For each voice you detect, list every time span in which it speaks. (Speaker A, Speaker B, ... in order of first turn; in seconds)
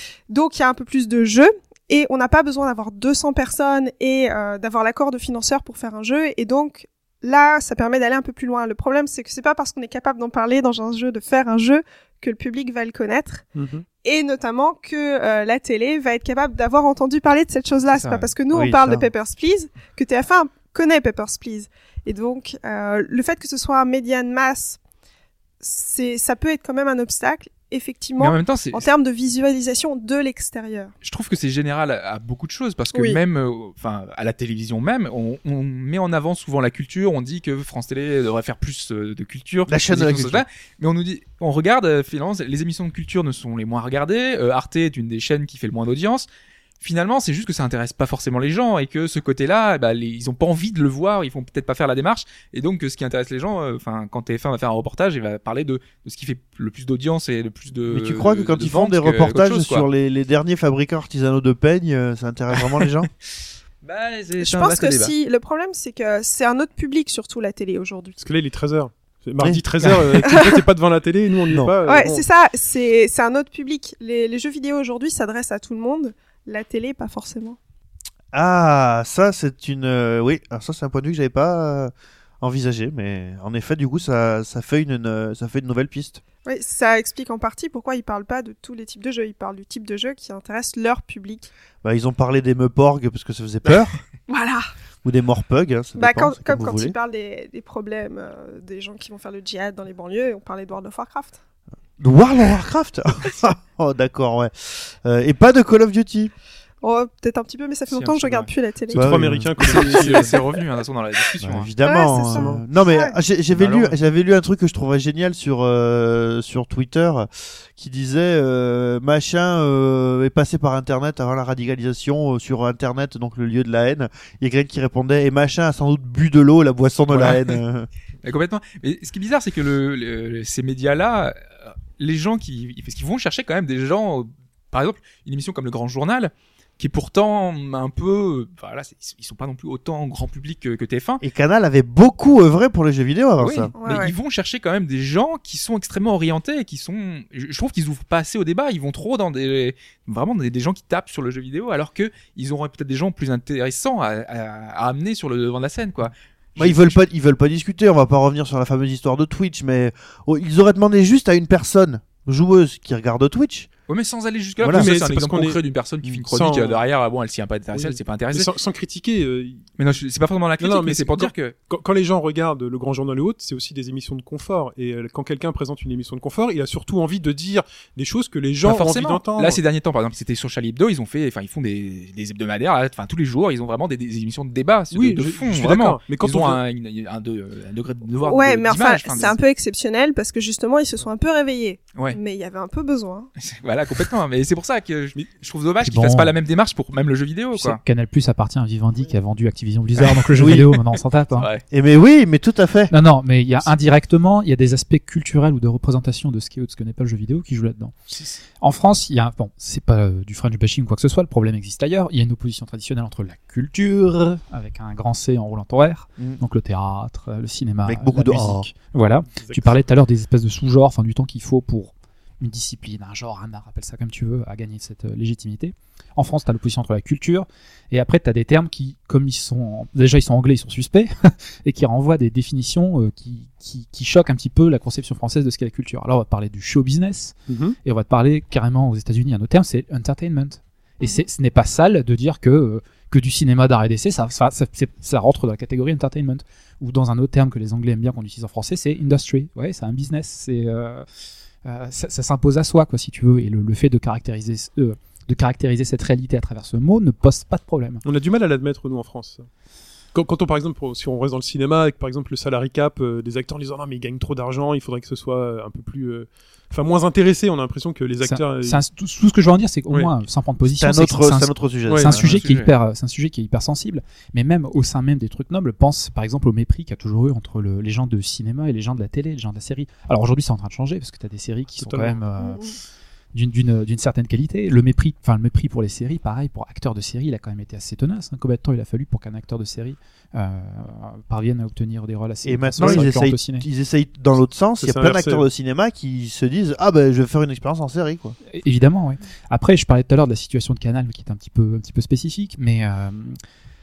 Speaker A: 0.3-13.5, 14.0-24.8, 25.6-30.9, 32.9-33.2, 64.4-68.2, 70.2-70.6, 71.8-77.6, 86.5-91.5, 94.3-94.7, 96.0-101.4, 106.8-109.2, 111.8-113.1, 143.8-144.1, 188.2-193.3, 282.4-282.8
Speaker B: 13.5-13.9, 68.2-72.2, 108.9-110.6, 112.3-112.6, 164.7-165.6, 166.3-166.8, 167.7-169.7, 170.6-179.6, 184.9-186.6, 219.3-219.8, 237.5-237.8, 258.1-259.5, 260.1-268.8, 271.9-272.1, 281.8-282.2, 292.8-293.1, 294.8-295.4
Speaker C: 17.9-18.3, 28.2-28.9, 31.0-46.3, 46.8-59.9, 62.6-62.9, 63.8-65.2, 69.8-70.2, 107.9-108.5, 109.6-111.7, 113.5-114.0, 127.1-127.6, 128.2-141.2, 143.4-157.0, 163.9-168.5, 169.8-171.6, 178.6-189.4, 193.4-197.8, 200.0-200.8, 201.4-201.7, 208.1-208.4, 272.1-272.7
Speaker D: 18.5-19.1, 39.7-40.5, 57.9-63.1, 78.3-86.2, 91.8-94.0, 95.0-97.0, 102.0-106.3, 108.9-110.3, 111.4-127.9, 141.2-143.7, 156.6-163.7, 164.6-164.9, 200.4-200.7, 201.7-202.9, 213.8-214.4, 217.9-218.7, 270.8-272.4, 292.4-298.4
Speaker E: 195.8-196.3, 197.5-201.5, 202.9-208.0, 208.6-213.8, 214.4-251.1, 251.7-258.0, 268.2-282.6, 283.3-293.7, 298.5-303.4